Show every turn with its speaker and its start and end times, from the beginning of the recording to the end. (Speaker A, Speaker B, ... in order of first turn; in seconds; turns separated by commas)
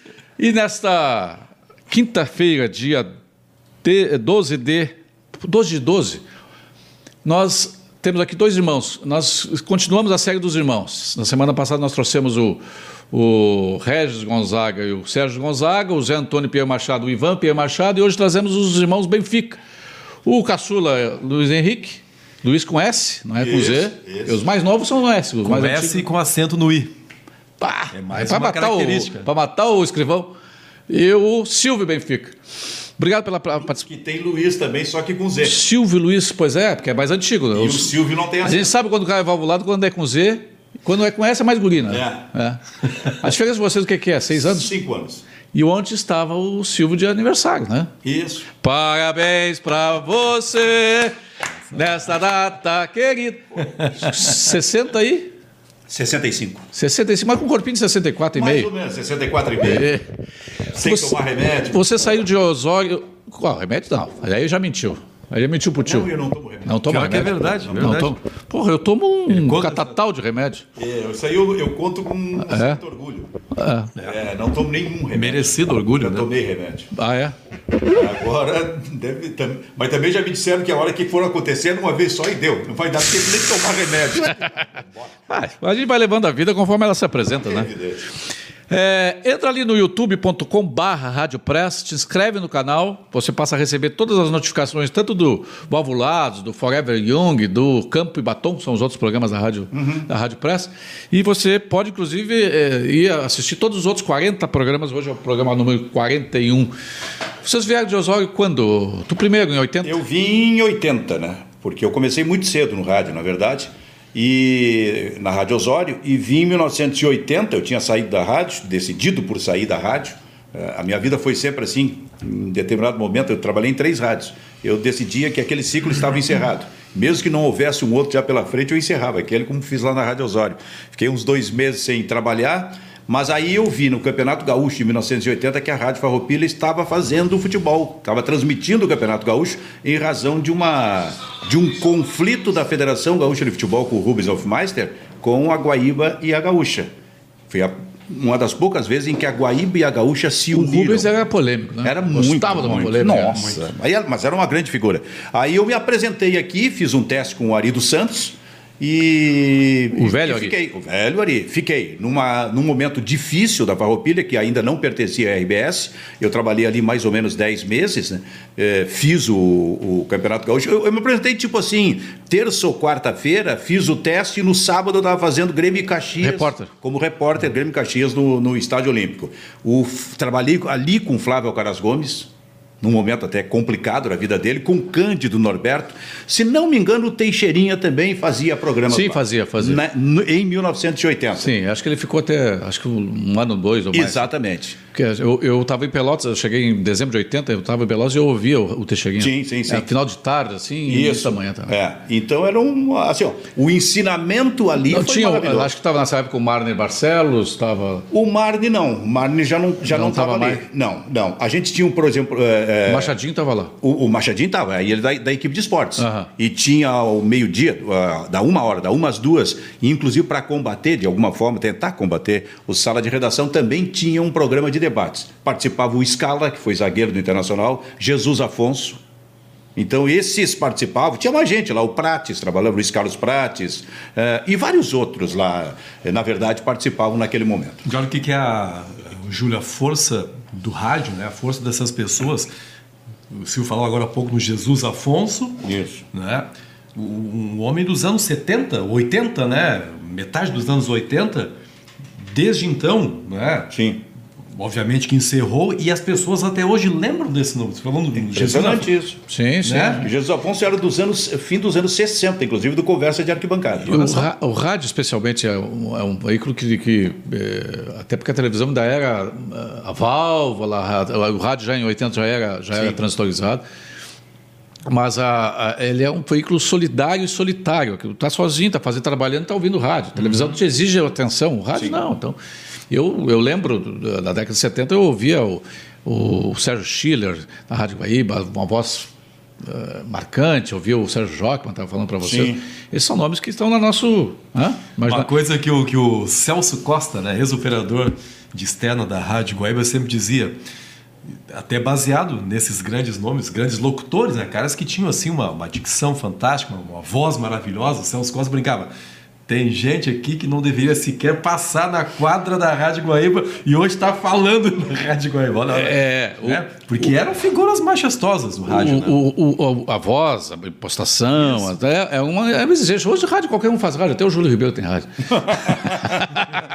Speaker A: 0.4-3.1, Speaker A: 3.8-6.2, Speaker A: 7.2-12.6, Speaker A: 13.1-19.6, Speaker A: 20.2-26.0, Speaker B: 23.4-24.4, Speaker C: 25.4-26.9, Speaker A: 27.6-30.3, Speaker C: 27.9-29.3, Speaker A: 30.9-32.4, Speaker A: 33.0-33.9, Speaker B: 33.6-35.6, Speaker A: 35.4-42.6, Speaker B: 37.5-38.7, Speaker B: 41.9-42.2, Speaker A: 43.2-44.7, Speaker B: 44.3-45.2, Speaker A: 45.5-47.9, Speaker B: 48.0-48.5, Speaker A: 48.6-51.1, Speaker A: 51.7-55.3, Speaker B: 55.9-56.7, Speaker A: 56.7-58.7, Speaker B: 58.3-59.9, Speaker A: 59.6-60.0, Speaker B: 60.7-61.9, Speaker A: 60.8-66.1, Speaker B: 65.8-68.1, Speaker A: 66.7-70.7, Speaker C: 66.9-68.1, Speaker C: 69.3-69.9, Speaker B: 70.8-73.3, Speaker A: 72.4-72.8, Speaker A: 73.5-73.9, Speaker B: 74.0-76.9, Speaker C: 75.1-76.3, Speaker A: 76.9-77.3, Speaker B: 77.8-85.1, Speaker A: 85.3-87.7, Speaker B: 87.4-88.0, Speaker A: 88.7-106.7, Speaker B: 99.7-100.1, Speaker A: 107.4-110.0, Speaker B: 109.8-146.9, Speaker B: 147.5-151.1, Speaker A: 150.5-153.4, Speaker B: 151.8-182.3, Speaker C: 153.3-153.7, Speaker A: 159.9-160.5, Speaker A: 176.2-176.7, Speaker B: 182.8-191.5, Speaker A: 188.9-189.8, Speaker A: 191.4-194.3, Speaker B: 193.9-194.8, Speaker A: 194.9-201.8, Speaker B: 199.2-199.9, Speaker B: 200.9-205.7, Speaker A: 204.9-208.1, Speaker B: 208.1-213.1, Speaker A: 209.8-210.6, Speaker A: 212.9-213.7, Speaker B: 213.8-229.0, Speaker A: 216.0-216.3, Speaker B: 229.8-237.9, Speaker C: 237.8-242.5, Speaker C: 243.3-251.5, Speaker B: 245.6-246.0, Speaker C: 252.3-253.7, Speaker B: 253.7-254.0, Speaker C: 254.5-258.9, Speaker B: 258.3-259.2, Speaker A: 259.3-260.1, Speaker C: 259.6-260.1, Speaker B: 259.9-264.2, Speaker A: 263.9-273.6, Speaker A: 274.9-282.4, Speaker C: 280.2-280.5, Speaker B: 281.7-282.0, Speaker A: 282.9-289.1, Speaker A: 289.6-295.3, Speaker B: 292.2-292.6, Speaker C: 295.0-300.5, Speaker C: 301.5-308.9, Speaker C: 309.5-319.2, Speaker A: 315.7-317.1, Speaker A: 318.7-326.6, Speaker B: 325.3-326.3